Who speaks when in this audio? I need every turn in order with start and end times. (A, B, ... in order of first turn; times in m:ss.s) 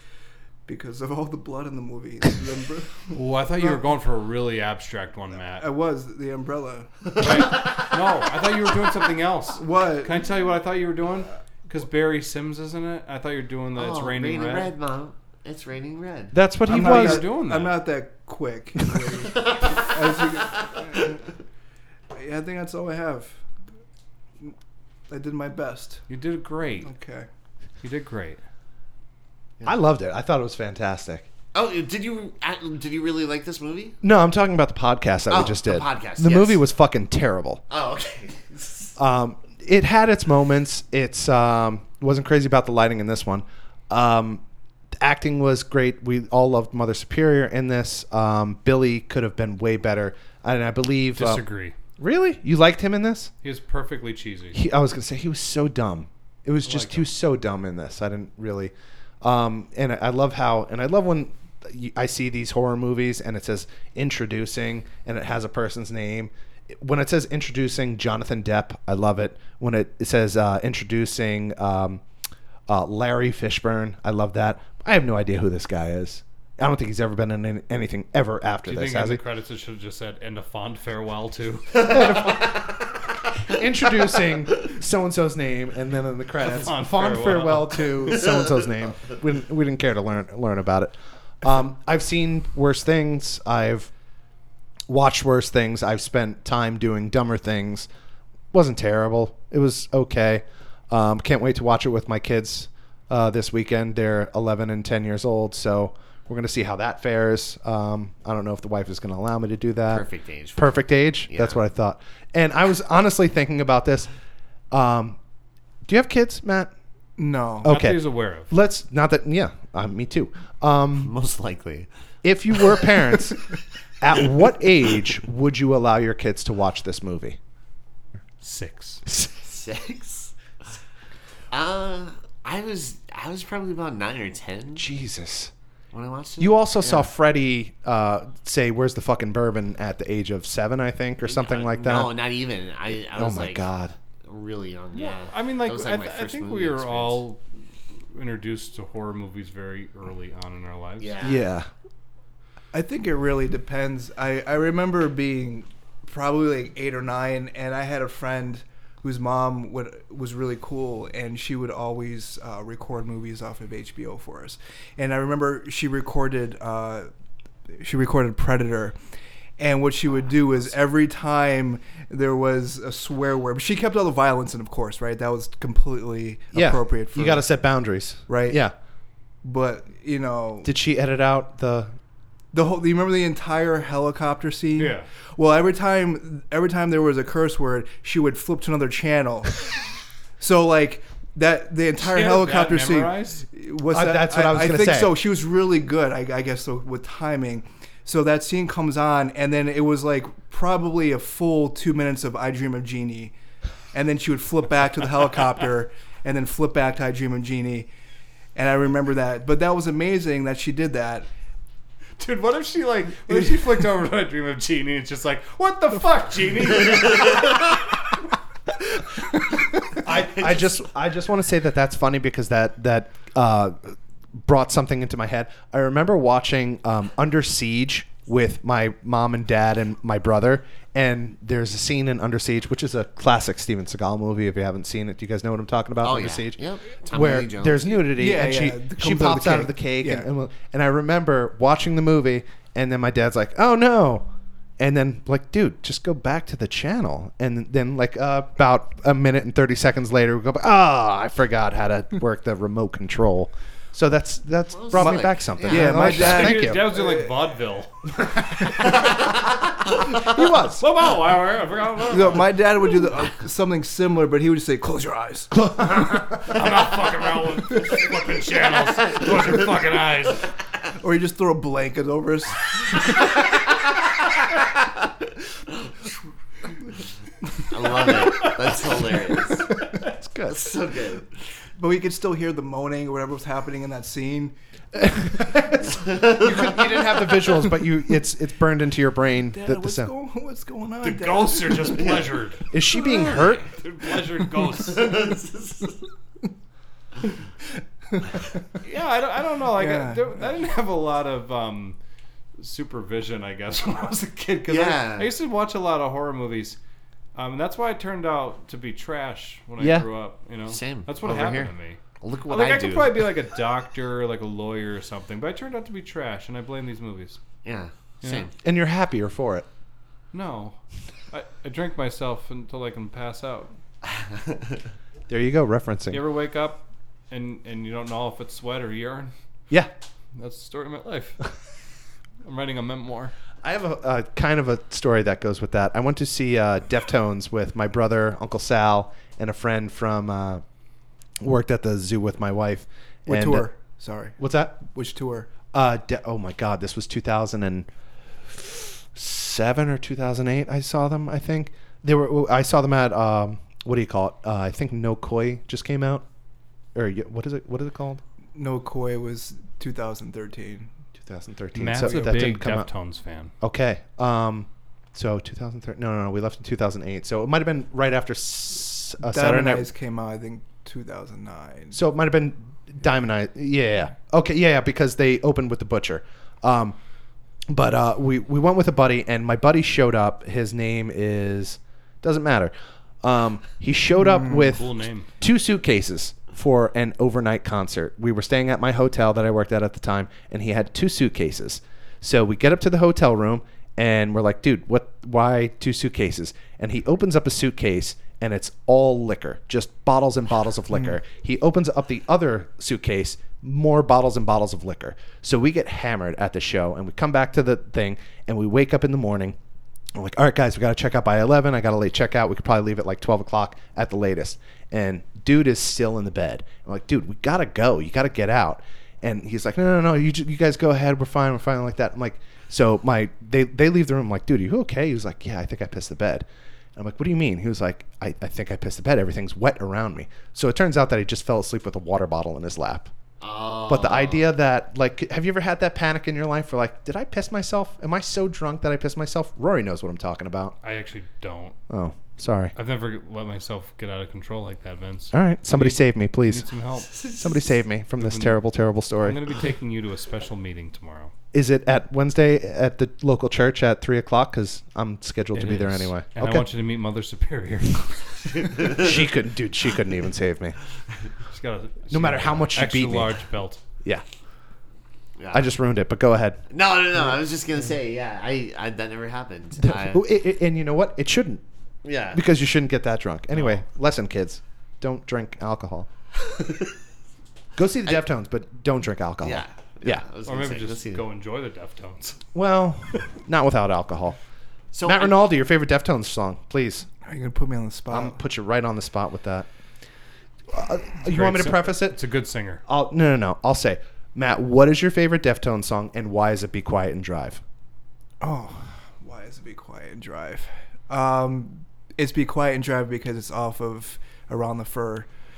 0:00.6-0:03.8 A
0:03.1-0:05.6 B
0:05.6-0:07.3 A
0:07.2-0:14.7 B
0:07.2-0:07.8 C
0:09.6-0:10.2 A
0:13.7-0:16.3 C
0:16.3-0:17.2 D
0:16.7-0:21.3 A
0:16.7-0:17.8 B
0:19.3-0:20.7 C
0:22.1-0:23.4 A
0:25.1-0:26.0 A
0:26.1-0:26.9 B
0:26.8-0:27.3 A
0:27.8-0:28.4 B
0:29.6-0:31.3 D
0:31.5-0:34.0 C
0:34.0-0:37.6 D
0:35.3-0:36.6 C
0:37.7-0:38.9 C
0:39.0-0:44.4 D
0:45.0-0:51.4 D
0:51.2-0:51.7 B
0:52.0-0:53.3 D
0:53.4-0:54.6 B
0:54.5-1:12.0 D
0:56.7-0:57.0 B
1:12.7-1:19.2 D
1:18.7-1:22.0 B
1:21.8-1:22.7 D
1:23.5-1:33.9 D
1:26.4-1:28.0 B
1:34.9-1:37.9 D
1:38.5-1:50.0 D
1:49.9-1:51.6 C
1:50.6-1:54.1 D
1:54.7-1:55.2 D
1:55.8-1:56.7 D
1:57.2-1:57.8 A
1:57.6-1:58.5 B
1:57.6-2:01.1 D
2:01.0-2:01.9 C
2:02.2-2:03.4 D
2:02.6-2:02.9 C
2:04.0-2:07.4 D
2:08.4-2:09.0 B
2:09.4-2:10.3 C
2:11.5-2:14.8 C
2:14.8-2:15.5 D
2:15.9-2:17.1 C
2:16.4-2:22.1 D
2:21.2-2:23.6 C
2:23.1-2:24.0 D
2:24.2-2:27.2 C
2:24.9-2:27.4 B
2:28.1-2:31.2 B
2:31.0-2:31.4 C
2:31.2-2:31.7 D
2:32.7-2:47.1 A
2:47.8-2:49.0 A
2:49.6-2:57.4 A
2:56.5-2:58.7 D
2:58.3-2:58.6 A
2:59.4-3:00.7 A
3:00.6-3:01.9 D
3:02.5-3:09.7 A
3:04.8-3:05.1 B
3:10.4-3:23.3 A
3:12.0-3:13.4 B
3:13.9-3:15.2 D
3:23.9-3:27.9 A
3:28.5-3:31.3 A
3:32.2-3:38.2 B
3:40.0-4:04.3 D
3:40.0-3:40.7 C
3:56.0-3:57.9 C
3:58.0-4:00.3 A
4:04.8-4:16.8 D
4:14.7-4:16.0 C
4:15.7-4:17.4 A
4:15.9-4:18.7 B
4:18.2-4:19.1 D
4:20.0-4:20.8 D
4:20.6-4:22.6 B
4:22.1-4:25.5 A
4:25.5-4:26.5 D
4:26.4-4:30.5 B
4:31.0-4:33.1 A
4:37.7-4:39.7 C
4:39.9-4:40.7 D
4:40.5-4:41.3 C
4:41.8-4:44.6 A
4:45.0-4:50.1 D
4:49.5-4:52.2 A
4:51.0-4:52.6 B
4:52.7-4:53.7 D
4:52.9-4:53.6 C
4:53.7-4:55.3 B
4:54.8-4:56.0 C
4:58.1-4:58.6 A
4:58.8-5:02.0 B
4:59.7-5:00.3 A
5:02.6-5:06.8 B
5:04.7-5:05.3 C
5:07.3-5:17.4 B
5:09.8-5:10.1 D
5:10.7-5:13.2 C
5:17.6-5:18.5 C
5:18.2-5:18.5 B
5:18.6-5:19.6 D
5:20.3-5:20.8 B
5:21.3-5:23.7 B
5:24.2-5:24.7 C
5:25.3-5:26.2 D
5:26.1-5:29.3 B
5:30.4-5:31.6 B
5:32.4-5:33.3 B
5:33.6-5:40.6 D
5:41.4-5:43.7 D
5:43.3-5:45.5 A
5:44.4-5:44.8 D
5:45.7-5:47.9 D
5:48.4-5:56.2 D
5:56.9-5:58.2 D
5:58.5-6:00.9 A
6:01.2-6:02.9 D
6:01.8-6:03.5 B
6:02.0-6:02.6 A
6:03.6-6:09.9 D
6:09.2-6:12.0 A
6:11.9-6:17.0 D
6:17.7-6:49.6 D
6:24.2-6:24.7 A
6:24.6-6:25.3 B
6:50.1-7:06.4 D
7:07.0-7:13.1 D
7:13.4-7:14.5 C
7:13.9-7:20.8 D
7:20.8-7:21.8 B
7:21.9-7:22.7 D
7:22.7-7:27.2 B
7:25.3-7:26.6 D
7:27.3-7:29.4 D
7:28.2-7:28.5 B
7:29.2-7:31.3 B
7:31.5-7:36.7 D
7:35.5-7:38.7 B
7:38.5-7:39.1 C
7:38.8-7:40.8 D
7:41.5-7:43.8 B
7:42.1-7:43.4 D
7:45.4-7:45.7 C
7:45.5-7:46.6 D
7:46.7-7:50.2 C
7:49.8-7:51.6 D
7:52.0-7:52.4 C
7:52.3-7:56.1 D
7:53.5-7:53.8 B
7:56.5-7:56.9 C
7:57.8-8:00.2 D
7:59.4-8:01.2 C
8:00.4-8:02.4 B
8:02.5-8:04.4 D
8:04.9-8:05.4 C
8:05.0-8:07.1 D
8:07.2-8:08.4 A
8:08.1-8:09.7 D
8:10.7-8:12.2 D
8:11.2-8:12.8 B
8:12.8-8:17.6 D
8:18.4-8:25.3 A